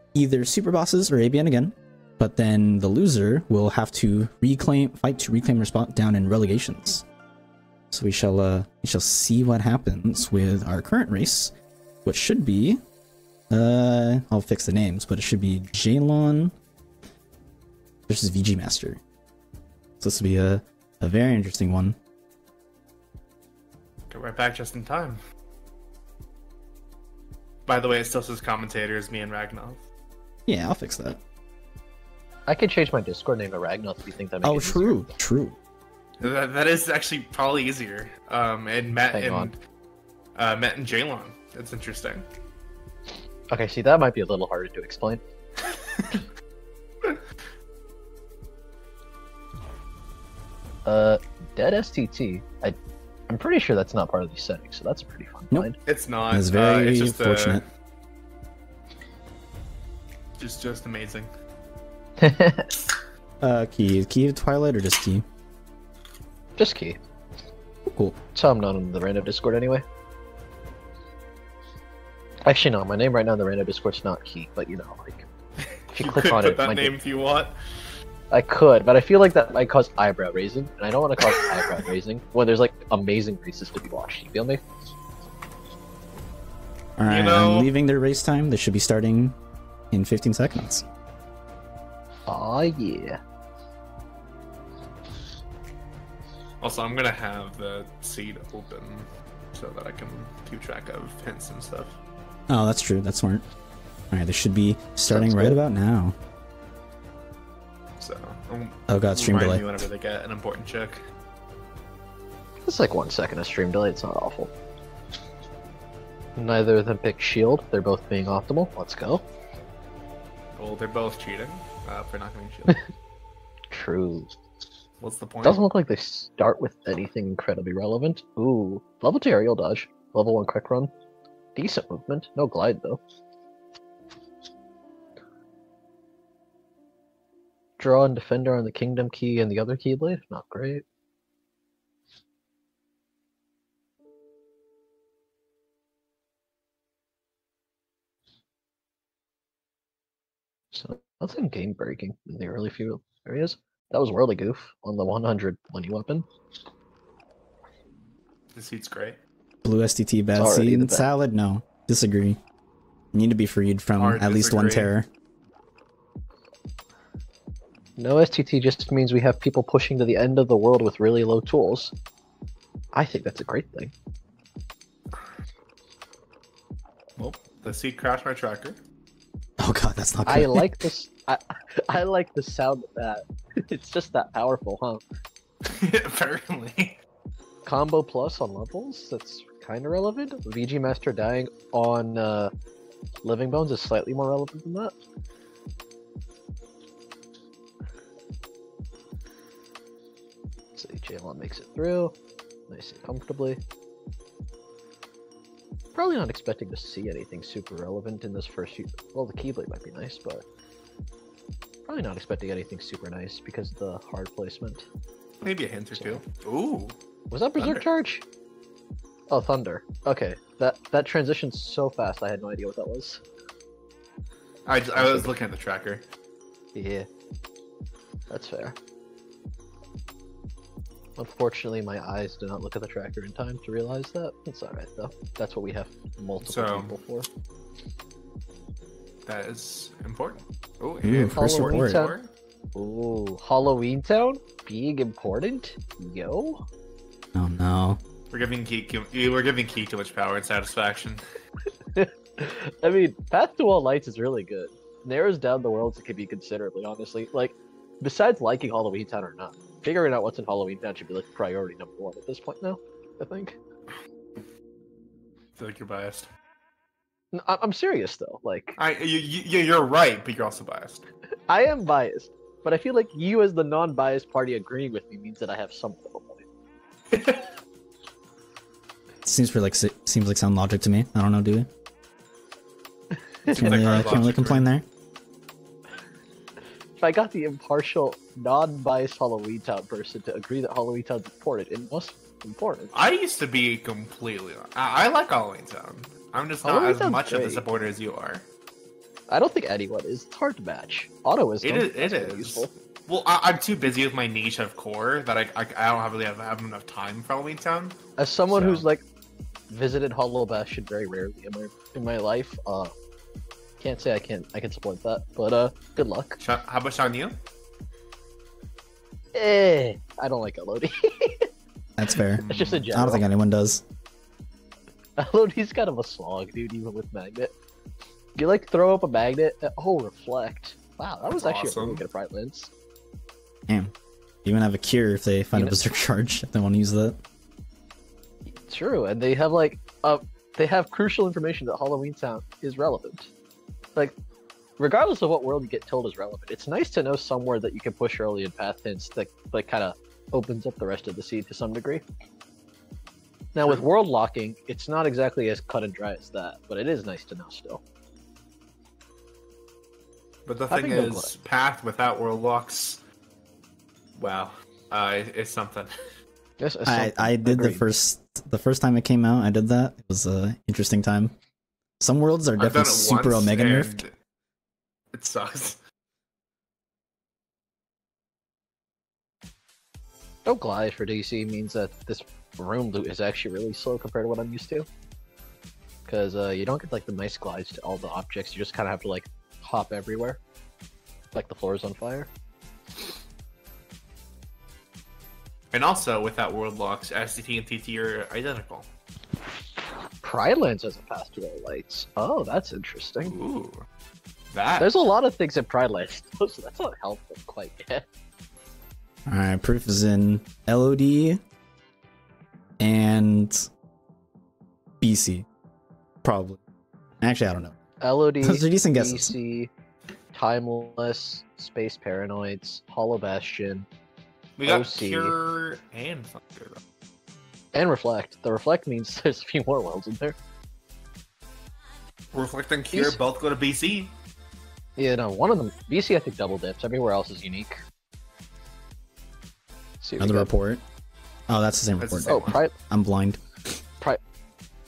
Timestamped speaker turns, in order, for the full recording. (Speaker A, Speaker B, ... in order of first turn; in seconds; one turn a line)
Speaker A: 0.1-7.0
Speaker A: 7.9-11.5
Speaker A: 12.1-12.8
Speaker A: 13.5-16.5
Speaker A: 18.1-19.0
Speaker A: 20.0-22.0
Speaker B: 24.1-25.2
Speaker B: 27.7-29.8
Speaker A: 30.5-31.2
Speaker C: 32.5-35.1
Speaker A: 34.4-35.6
Speaker B: 36.2-39.6
Speaker C: 39.1-39.5
Speaker B: 40.4-42.3
Speaker C: 43.5-45.2
Speaker C: 50.9-52.8
Speaker C: 53.3-55.8
Speaker B: 55.9-57.6
Speaker A: 56.3-57.6
Speaker B: 60.4-61.3
Speaker C: 62.2-62.8
Speaker A: 63.4-65.2
Speaker C: 66.6-67.0
Speaker A: 67.9-68.2
Speaker C: 68.3-69.8
Speaker C: 72.5-75.3
Speaker B: 75.9-77.5
Speaker C: 75.9-77.0
Speaker C: 78.3-84.6
Speaker B: 81.3-81.8
Speaker A: 87.0-89.4
Speaker B: 87.1-87.7
Speaker A: 89.9-90.8
Speaker C: 92.3-93.2
Speaker B: 96.6-102.0
Speaker A: 102.5-103.5
Speaker A: 104.1-106.2
Speaker C: 105.1-105.6
Speaker B: 108.0-111.0
Speaker A: 108.9-109.6
Speaker C: 112.6-114.5
Speaker C: 116.4-119.2
Speaker B: 120.6-122.8
Speaker C: 123.7-124.3
Speaker B: 125.0-125.6
Speaker C: 125.4-130.9
Speaker C: 131.6-133.0
Speaker C: 137.8-140.8
Speaker C: 150.7-156.3
Speaker B: 158.6-159.2
Speaker A: 159.6-162.4
Speaker C: 160.4-161.1
Speaker A: 163.1-165.1
Speaker B: 164.0-164.9
Speaker C: 168.0-171.9
Speaker C: 172.9-173.9
Speaker B: 177.2-178.8
Speaker A: 179.6-180.8
Speaker C: 180.3-185.0
Speaker B: 185.6-187.0
Speaker C: 187.7-192.5
Speaker C: 193.2-194.9
Speaker C: 200.8-202.2
Speaker C: 202.7-203.6
Speaker C: 205.9-210.4
Speaker C: 211.9-214.8
Speaker B: 215.4-217.0
Speaker C: 215.9-216.2
Speaker C: 217.3-218.2
Speaker B: 217.6-217.9
Speaker C: 219.3-223.2
Speaker B: 224.7-226.0
Speaker C: 224.9-225.3
Speaker C: 226.8-227.1
Speaker C: 228.3-228.8
Speaker C: 231.2-237.3
Speaker B: 236.4-236.9
Speaker B: 239.3-242.3
Speaker A: 241.0-242.1
Speaker C: 241.3-242.1
Speaker C: 242.8-246.7
Speaker A: 247.3-248.0
Speaker B: 248.3-251.2
Speaker C: 251.9-263.6
Speaker B: 265.6-266.3
Speaker C: 267.3-268.8
Speaker B: 268.8-271.1
Speaker C: 271.5-276.5
Speaker B: 277.1-277.5
Speaker A: 279.2-281.7
Speaker C: 283.4-284.2
Speaker B: 283.5-284.7
Speaker A: 283.5-284.9
Speaker C: 287.0-292.9
Speaker B: 292.9-298.4
Speaker C: 296.6-297.6
Speaker C: 299.3-302.7
Speaker B: 301.6-308.0
Speaker C: 308.2-309.0
Speaker B: 308.5-308.9
Speaker C: 309.7-312.9
Speaker C: 313.8-316.4
Speaker B: 316.4-317.4
Speaker C: 319.3-321.5
Speaker A: 322.0-323.8
Speaker B: 322.3-322.9
Speaker C: 322.4-323.2
Speaker C: 325.2-327.5
Speaker C: 328.4-332.7
Speaker B: 331.3-332.0
Speaker A: 333.7-333.9
Speaker A: 334.4-337.2
Speaker C: 338.5-343.3
Speaker C: 344.8-352.0
Speaker C: 353.6-357.8
Speaker B: 360.5-363.0
Speaker C: 360.7-361.3
Speaker B: 364.2-365.9
Speaker C: 366.6-367.9
Speaker A: 366.9-371.3
Speaker A: 372.0-374.0
Speaker B: 372.6-374.1
Speaker B: 375.1-375.8
Speaker C: 380.5-384.9
Speaker C: 386.1-390.4
Speaker C: 391.3-392.3
Speaker B: 395.7-398.9
Speaker C: 400.2-403.4
Speaker B: 403.2-403.9
Speaker B: 404.5-404.9
Speaker C: 404.8-408.1
Speaker A: 409.3-411.4
Speaker A: 412.8-413.7
Speaker A: 415.0-415.5
Speaker A: 416.2-416.6
Speaker A: 417.2-417.8
Speaker C: 418.0-419.7
Speaker A: 418.4-419.3
Speaker C: 420.3-423.9
Speaker B: 424.6-426.8
Speaker C: 424.7-425.3
Speaker C: 427.7-430.4
Speaker B: 432.3-434.1
Speaker C: 432.9-433.2
Speaker C: 435.0-437.8
Speaker C: 440.0-440.5
Speaker A: 440.2-440.8
Speaker A: 441.5-443.8
Speaker B: 442.0-442.6
Speaker C: 442.3-442.7